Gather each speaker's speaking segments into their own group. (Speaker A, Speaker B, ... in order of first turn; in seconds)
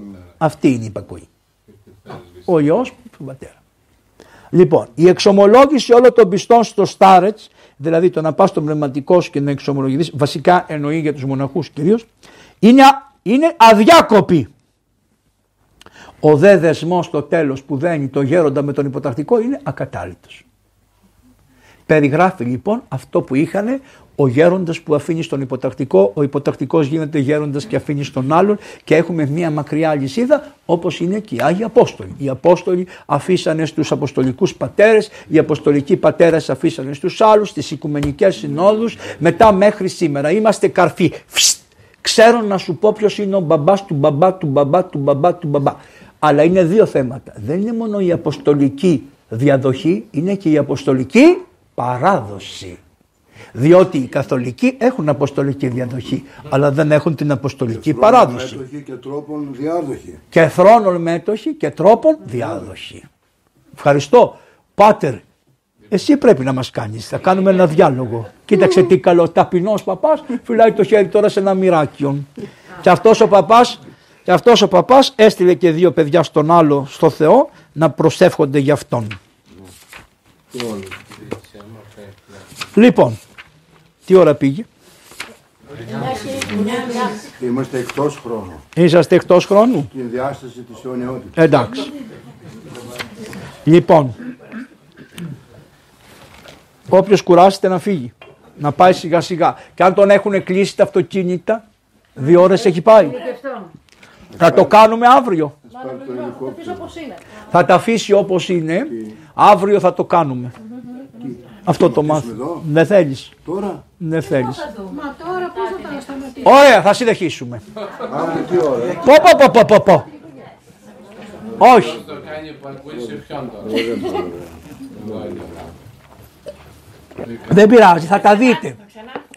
Speaker A: 0.4-1.3, 2.4-3.6, 4.5-12.1, 12.6-14.5, 16.2-20.4, 21.9-52.8, 53.5-58.6, 60.3-63.1, 63.8-65.2, 65.9-72.3, 72.8-79.2, 82.7-83.2, 84.0-84.7, 88.8-89.9, 91.3-91.8, 93.6-94.2, 96.9-101.6, 102.2-103.2, 104.4-105.5, 107.5-110.5, 111.7-113.3, 114.0-114.7, 116.4-117.6, 119.0-120.1, 121.6-122.0, 127.4-128.8
Speaker B: 57.7-60.2, 80.5-81.0, 87.3-88.6, 89.9-91.4, 104.4-104.7, 105.7-106.9, 111.2-112.7, 113.4-113.8, 118.1-119.1, 123.6-125.5
Speaker C: 81.1-82.5, 121.6-123.9, 125.0-125.7
Speaker D: 85.9-87.2, 106.3-107.1, 114.8-116.3